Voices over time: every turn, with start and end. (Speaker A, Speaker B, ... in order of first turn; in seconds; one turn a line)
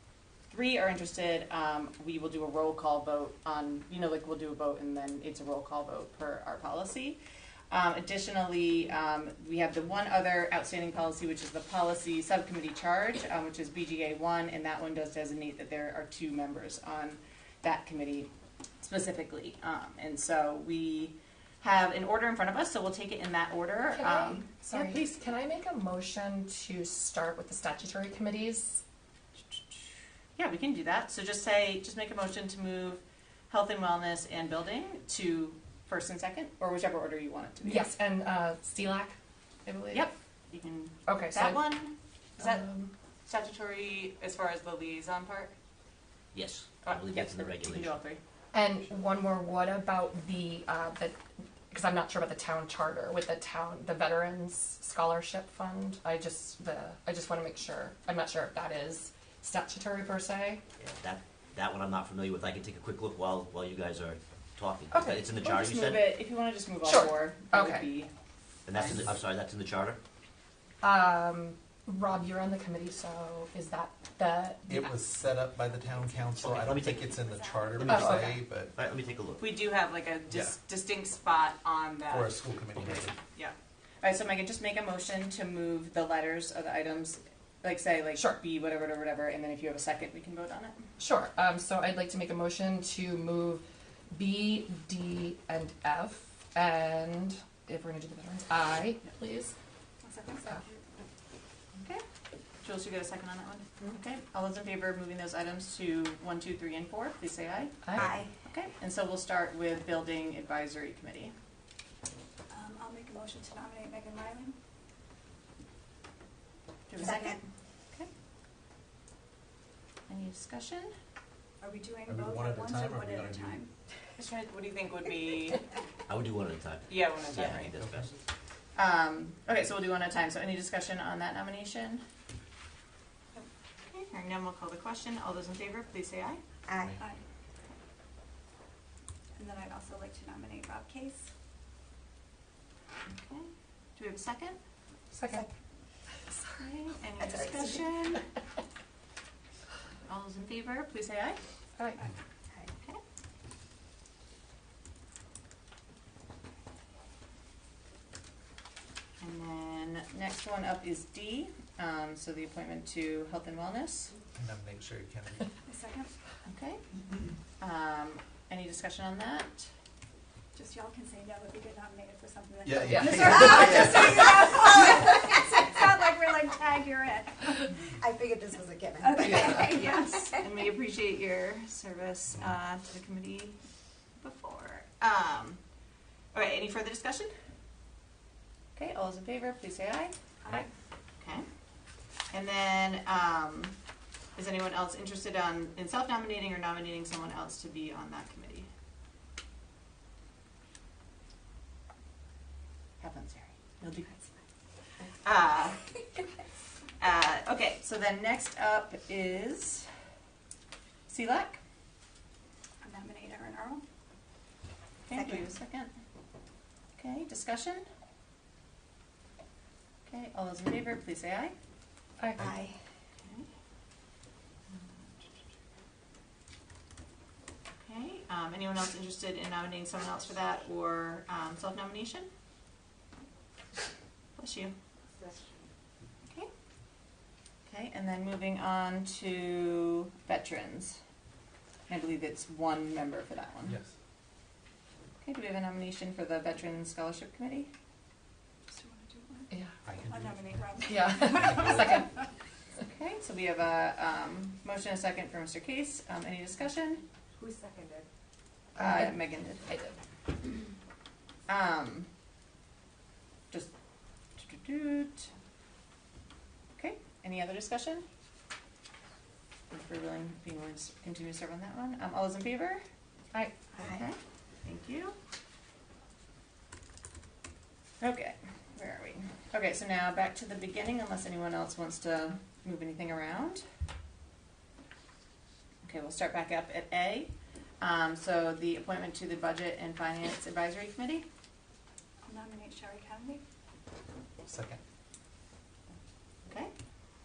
Speaker A: 0.5-7.2
Speaker A: 7.7-18.3
Speaker A: 18.8-25.0
Speaker B: 23.9-28.8
Speaker A: 29.5-29.8
Speaker A: 30.4-37.9
Speaker B: 37.6-39.1
Speaker B: 39.6-40.1
Speaker A: 39.9-42.6
Speaker B: 41.1-41.7
Speaker B: 42.4-42.9
Speaker A: 43.2-45.5
Speaker C: 46.3-47.9
Speaker A: 46.9-48.2
Speaker B: 48.5-51.1
Speaker B: 51.7-60.6
Speaker C: 60.8-66.0
Speaker B: 64.9-65.2
Speaker A: 65.4-68.1
Speaker B: 66.8-67.9
Speaker C: 68.7-70.0
Speaker A: 68.7-69.0
Speaker B: 70.8-74.9
Speaker D: 74.7-78.7
Speaker C: 76.4-77.0
Speaker E: 77.0-77.9
Speaker C: 77.8-79.4
Speaker B: 77.8-78.4
Speaker A: 79.4-82.4
Speaker D: 82.1-83.2
Speaker A: 83.3-90.8
Speaker B: 88.1-88.4
Speaker B: 91.0-99.5
Speaker E: 100.0-100.8
Speaker A: 101.8-102.0
Speaker A: 102.6-111.3
Speaker B: 107.8-108.1
Speaker F: 107.9-108.3
Speaker E: 112.5-114.5
Speaker A: 116.9-118.1
Speaker F: 117.0-117.4
Speaker A: 120.1-120.9
Speaker E: 121.6-123.7
Speaker D: 122.0-123.6
Speaker A: 124.2-125.6
Speaker C: 126.1-128.1
Speaker A: 126.9-127.7
Speaker D: 127.8-128.1
Speaker A: 128.8-132.0
Speaker A: 133.8-136.4
Speaker F: 136.7-137.0
Speaker E: 139.3-141.3
Speaker A: 143.1-144.6
Speaker B: 145.1-145.5
Speaker B: 146.3-146.6
Speaker A: 146.6-148.2
Speaker F: 147.2-147.9
Speaker A: 150.0-151.4
Speaker B: 151.8-152.1
Speaker A: 159.2-164.1
Speaker D: 164.4-165.5
Speaker E: 165.7-166.1
Speaker A: 166.4-166.8
Speaker A: 167.6-169.7
Speaker E: 170.5-177.9
Speaker D: 172.6-174.0
Speaker B: 172.9-173.3
Speaker F: 178.0-179.9
Speaker E: 179.0-180.3
Speaker A: 179.3-183.6
Speaker A: 184.2-185.6
Speaker A: 186.3-187.3
Speaker A: 188.8-190.1
Speaker A: 191.2-191.4
Speaker A: 192.3-193.7
Speaker A: 194.3-198.7
Speaker A: 203.0-204.2
Speaker A: 205.2-205.8
Speaker A: 207.0-209.9
Speaker A: 211.1-211.6
Speaker E: 212.8-213.8
Speaker A: 215.0-215.9
Speaker F: 215.1-215.5
Speaker A: 217.0-217.8
Speaker A: 220.1-221.5
Speaker B: 222.2-222.4
Speaker F: 222.4-222.8
Speaker A: 223.2-223.5
Speaker A: 224.7-225.3
Speaker A: 227.8-232.3
Speaker A: 234.3-234.7
Speaker F: 235.2-235.7
Speaker A: 237.7-241.0
Speaker A: 241.9-243.8
Speaker D: 243.7-243.9
Speaker A: 245.2-247.7
Speaker E: 248.7-249.5
Speaker D: 249.8-250.4
Speaker E: 250.1-252.0
Speaker B: 250.9-252.2
Speaker A: 252.8-257.0
Speaker F: 257.4-258.1
Speaker B: 258.8-259.9
Speaker A: 258.8-259.6
Speaker A: 261.5-262.1
Speaker A: 264.4-265.3
Speaker A: 266.8-268.0
Speaker A: 269.7-272.8
Speaker F: 273.8-274.0
Speaker A: 273.8-275.1
Speaker A: 278.0-283.6
Speaker A: 285.8-291.2
Speaker E: 292.2-293.4
Speaker D: 294.4-294.8
Speaker A: 296.4-296.7